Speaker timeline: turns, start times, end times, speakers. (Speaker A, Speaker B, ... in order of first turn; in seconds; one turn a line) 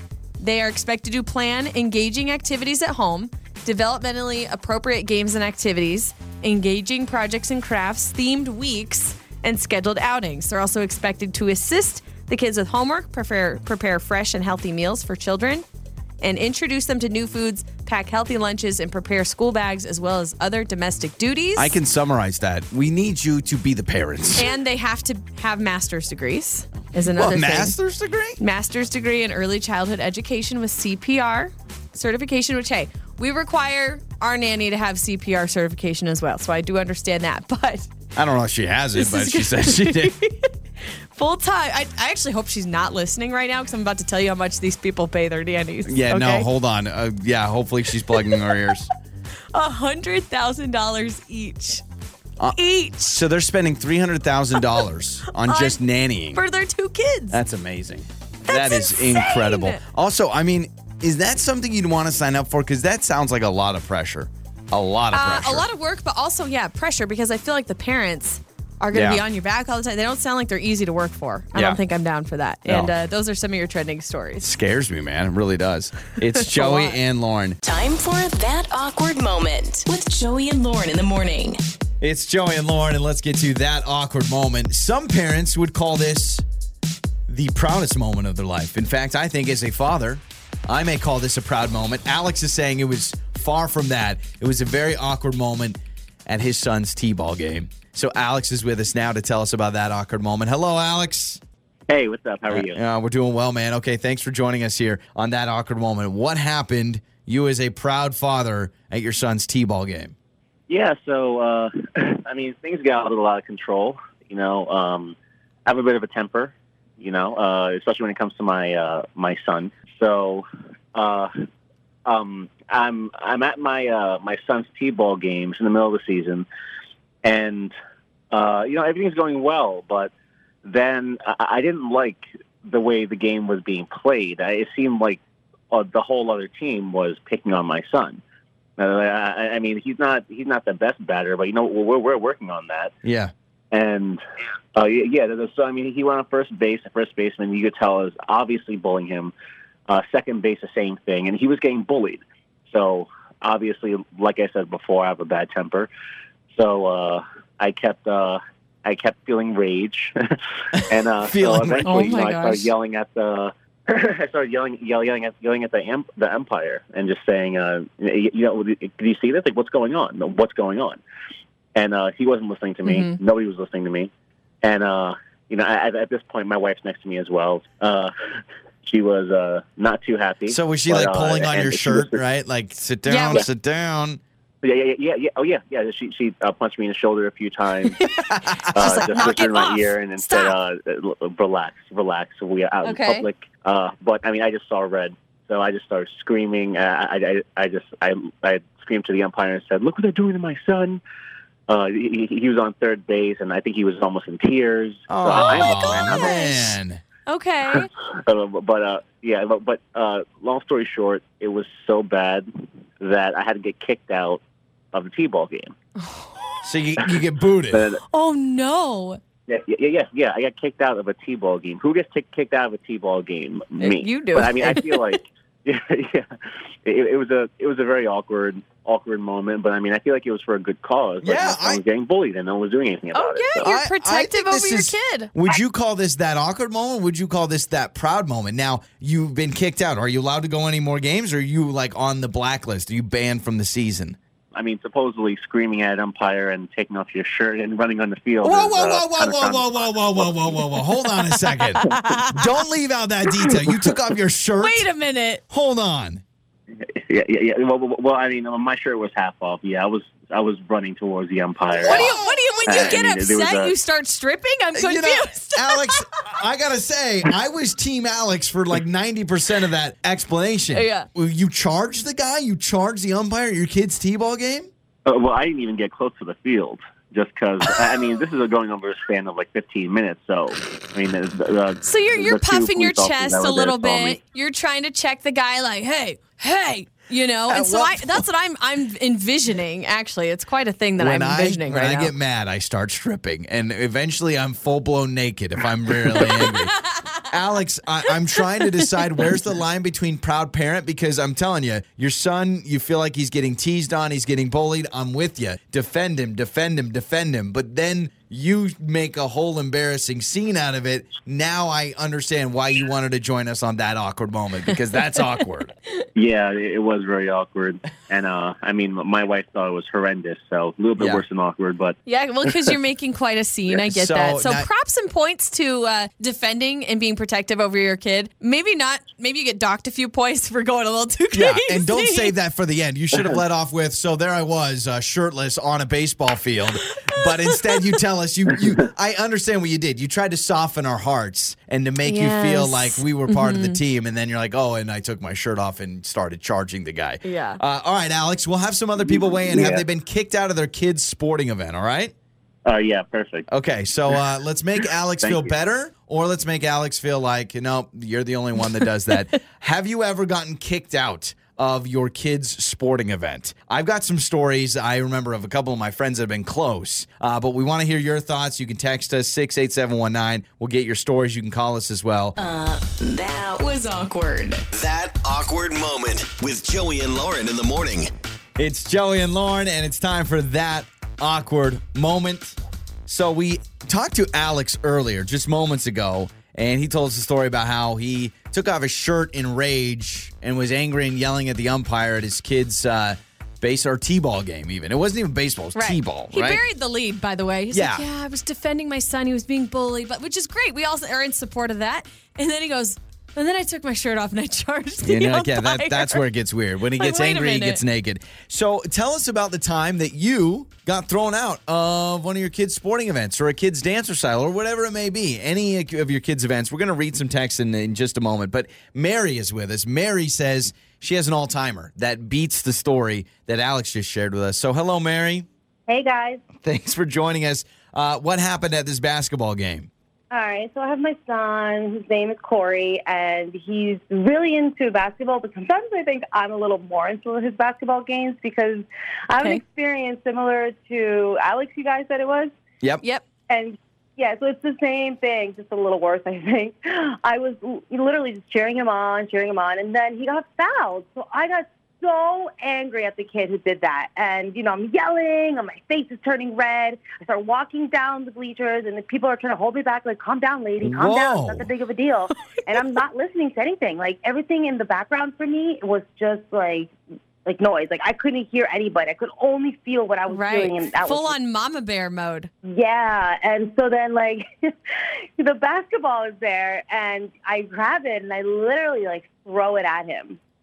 Speaker A: 0.4-15.6
Speaker A: 16.2-21.7
Speaker B: 21.6-24.5
Speaker A: 24.4-27.8
Speaker B: 27.2-28.4
Speaker A: 28.4-37.9
Speaker B: 38.2-40.1
Speaker A: 39.0-40.5
Speaker A: 41.1-46.5
Speaker B: 45.9-48.9
Speaker A: 48.1-48.4
Speaker A: 49.5-51.8
Speaker A: 52.5-53.2
Speaker B: 53.1-56.4
Speaker A: 55.3-55.8
Speaker A: 56.4-57.4
Speaker B: 57.3-65.7
Speaker A: 58.5-59.8
Speaker A: 65.1-74.5
Speaker B: 68.9-69.2
Speaker B: 71.5-71.8
Speaker B: 72.7-72.9
Speaker B: 74.4-77.6
Speaker A: 76.4-77.0
Speaker C: 77.6-81.6
Speaker B: 82.0-86.4
Speaker B: 87.3-101.4
Speaker D: 101.9-102.8
Speaker B: 102.5-110.1
Speaker D: 110.7-121.3
Speaker D: 122.1-126.5
Speaker D: 127.2-127.7
Speaker D: 128.3-130.1
Speaker D: 130.6-135.2
Speaker D: 135.7-138.2
Speaker D: 138.8-142.9
Speaker B: 143.0-143.3
Speaker D: 143.7-144.2
Speaker D: 144.8-149.3
Speaker D: 149.9-155.9
Speaker D: 156.5-160.1
Speaker B: 160.8-162.2
Speaker D: 160.8-171.0
Speaker A: 161.8-162.7
Speaker D: 171.8-174.1
Speaker A: 172.8-173.2
Speaker D: 174.6-178.1
Speaker D: 178.8-182.2
Speaker B: 180.5-184.2
Speaker A: 183.1-183.4
Speaker D: 184.6-188.0
Speaker A: 188.0-190.6
Speaker B: 188.2-189.3
Speaker D: 188.7-201.0
Speaker A: 192.8-193.3
Speaker D: 201.7-206.3
Speaker B: 205.1-207.0
Speaker A: 205.3-207.9
Speaker D: 207.7-212.5
Speaker D: 213.0-214.4
Speaker D: 214.9-215.7
Speaker A: 216.0-216.3
Speaker B: 216.6-217.9
Speaker D: 217.7-218.0
Speaker A: 218.1-219.2
Speaker D: 219.5-226.3
Speaker A: 223.8-225.2
Speaker D: 226.8-233.7
Speaker B: 231.2-231.8
Speaker A: 233.1-235.3
Speaker B: 233.6-244.2
Speaker D: 244.5-250.6
Speaker B: 248.4-254.8
Speaker A: 251.8-252.4
Speaker D: 251.8-252.2
Speaker A: 254.6-255.4
Speaker B: 255.5-256.2
Speaker D: 256.8-263.7
Speaker B: 261.8-263.0
Speaker A: 261.8-266.0
Speaker B: 264.8-274.7
Speaker A: 270.7-271.1
Speaker D: 275.1-284.2
Speaker A: 281.8-292.1
Speaker B: 287.5-288.2
Speaker B: 291.0-296.8
Speaker A: 296.1-297.1
Speaker B: 297.3-315.7
Speaker D: 316.2-322.7
Speaker B: 321.0-321.2
Speaker A: 322.1-332.3
Speaker B: 323.8-324.7
Speaker B: 331.3-352.1
Speaker A: 337.1-337.7
Speaker A: 342.0-343.8
Speaker A: 347.2-347.6
Speaker D: 349.0-349.8
Speaker D: 352.7-353.5
Speaker B: 353.5-372.4
Speaker D: 355.2-355.5
Speaker C: 372.4-374.7
Speaker E: 374.7-378.1
Speaker B: 378.6-396.6
Speaker A: 395.8-406.2
Speaker B: 397.7-398.1
Speaker B: 405.1-425.5
Speaker A: 407.0-407.8
Speaker F: 425.9-426.4
Speaker B: 426.6-429.9
Speaker F: 430.3-442.5
Speaker F: 443.5-466.9
Speaker B: 460.8-461.7
Speaker F: 467.4-471.4
Speaker A: 470.3-472.5
Speaker F: 472.6-480.4